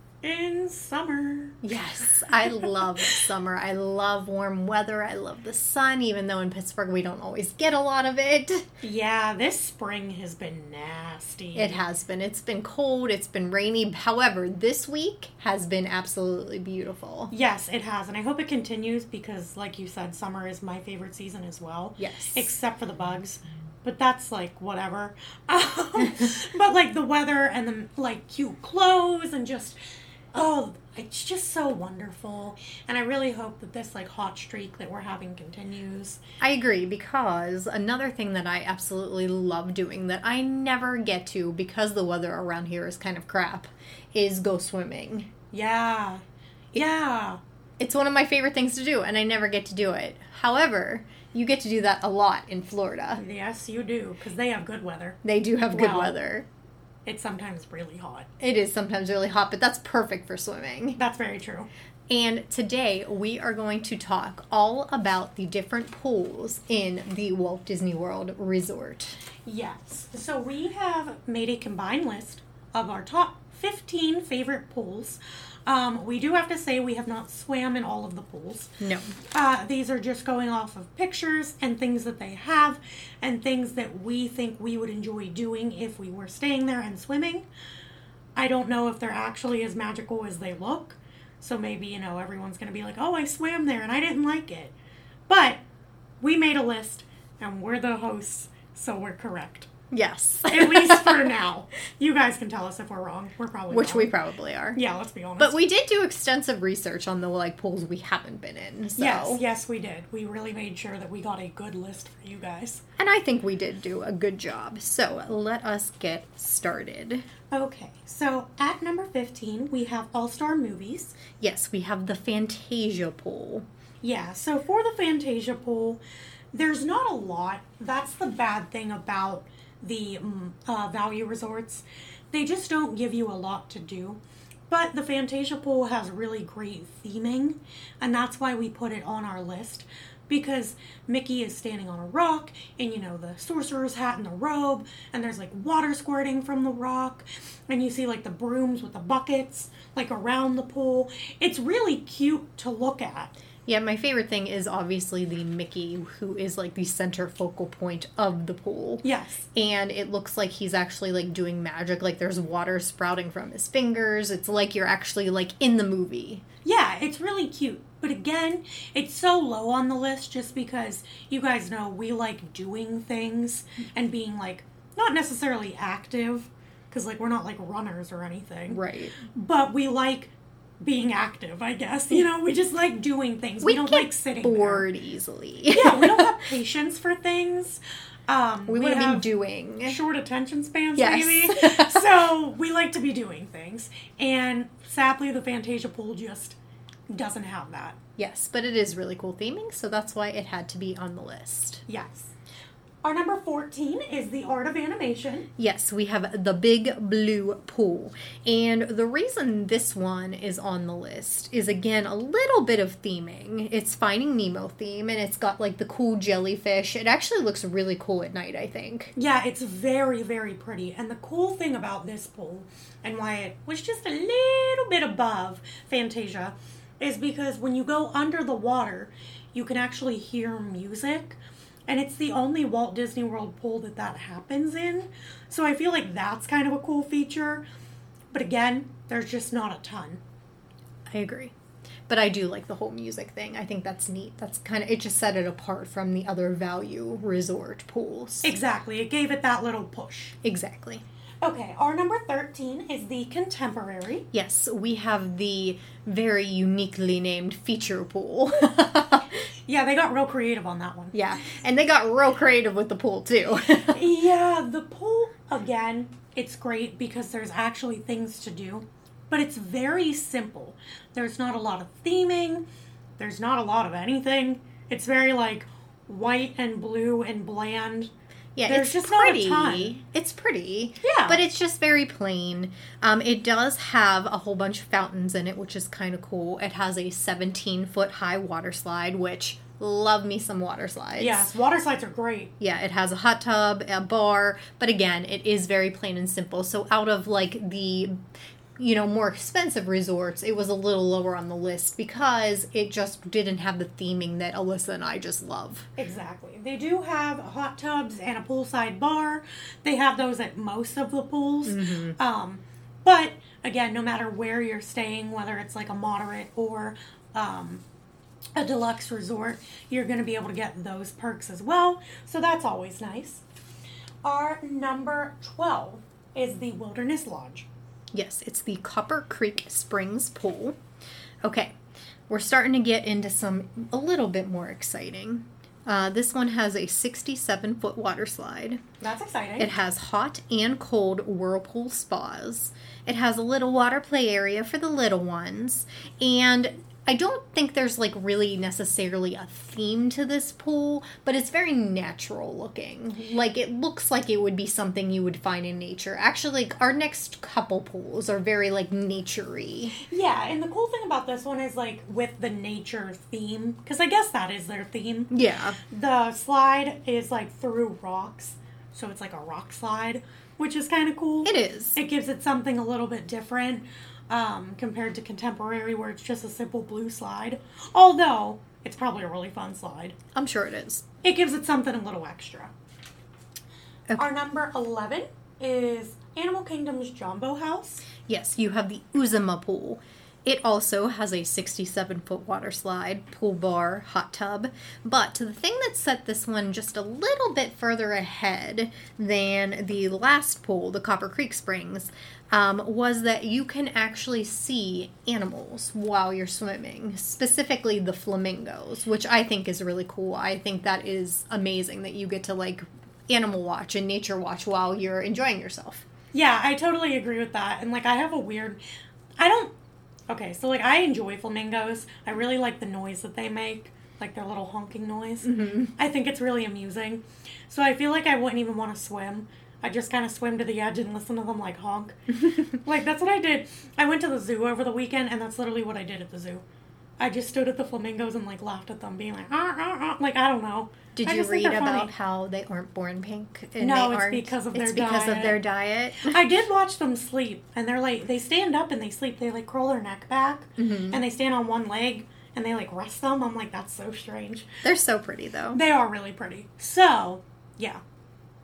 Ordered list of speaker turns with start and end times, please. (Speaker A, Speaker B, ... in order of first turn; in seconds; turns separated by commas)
Speaker A: 0.2-3.2, Speaker B: 1.6-8.7, Speaker A: 8.8-11.8, Speaker B: 11.5-17.3, Speaker A: 17.3-29.8, Speaker B: 22.0-22.5, Speaker A: 30.3-36.2, Speaker B: 36.4-45.3, Speaker A: 45.5-46.2, Speaker A: 46.7-47.4, Speaker B: 47.8-53.2, Speaker A: 53.2-55.2, Speaker B: 55.2-56.5, Speaker A: 55.7-56.1, Speaker A: 57.0-58.3, Speaker B: 58.4-61.0, Speaker A: 61.0-61.7, Speaker B: 62.1-69.2, Speaker A: 69.5-78.7, Speaker B: 78.8-79.1, Speaker A: 79.3-87.4, Speaker A: 88.3-94.7, Speaker A: 95.3-95.6, Speaker A: 96.2-99.7, Speaker B: 99.9-101.3, Speaker A: 100.5-104.1, Speaker B: 103.7-104.8, Speaker A: 104.7-105.6, Speaker B: 105.4-109.4, Speaker A: 109.0-112.8, Speaker B: 113.0-117.2, Speaker A: 117.5-121.2, Speaker B: 121.4-123.7, Speaker A: 124.0-126.0, Speaker A: 126.5-153.3, Speaker B: 153.7-159.0, Speaker A: 159.0-159.5, Speaker B: 159.5-166.4, Speaker A: 166.6-184.9, Speaker B: 178.7-179.2, Speaker B: 183.6-186.4, Speaker A: 185.7-189.3, Speaker B: 188.7-190.0, Speaker A: 189.8-196.6, Speaker B: 190.9-192.1, Speaker A: 197.1-198.0, Speaker B: 198.2-201.8, Speaker A: 201.9-202.3, Speaker A: 203.0-205.5, Speaker B: 205.6-219.1, Speaker A: 219.2-237.7, Speaker A: 238.3-240.2, Speaker B: 241.1-241.5, Speaker B: 242.1-248.5, Speaker A: 248.4-250.3, Speaker B: 250.4-251.0, Speaker A: 251.4-254.3, Speaker B: 254.3-259.3, Speaker A: 259.7-261.1, Speaker B: 261.1-264.0, Speaker A: 263.9-272.6, Speaker A: 273.2-278.1, Speaker B: 278.6-291.5, Speaker A: 278.7-280.0, Speaker A: 281.0-281.4, Speaker A: 291.2-292.5, Speaker B: 292.6-298.2, Speaker B: 298.8-305.9, Speaker A: 306.0-317.8, Speaker B: 311.6-312.2, Speaker A: 318.6-323.4, Speaker A: 324.2-327.7, Speaker B: 328.1-330.8, Speaker B: 331.4-331.7, Speaker B: 332.3-338.8, Speaker A: 339.0-339.7, Speaker B: 339.6-360.0, Speaker A: 360.0-365.3, Speaker B: 365.3-365.8, Speaker A: 365.9-380.1, Speaker B: 371.4-372.0, Speaker B: 380.3-381.0, Speaker A: 381.2-382.7, Speaker A: 384.2-388.0, Speaker B: 388.3-416.0, Speaker A: 416.3-418.8, Speaker A: 419.4-419.7, Speaker A: 420.3-436.6, Speaker B: 425.4-425.9, Speaker B: 432.4-432.8, Speaker A: 437.2-442.1, Speaker B: 441.1-446.4, Speaker A: 443.8-445.6, Speaker A: 446.2-454.7, Speaker B: 450.8-451.2, Speaker B: 454.8-455.8, Speaker A: 455.7-458.0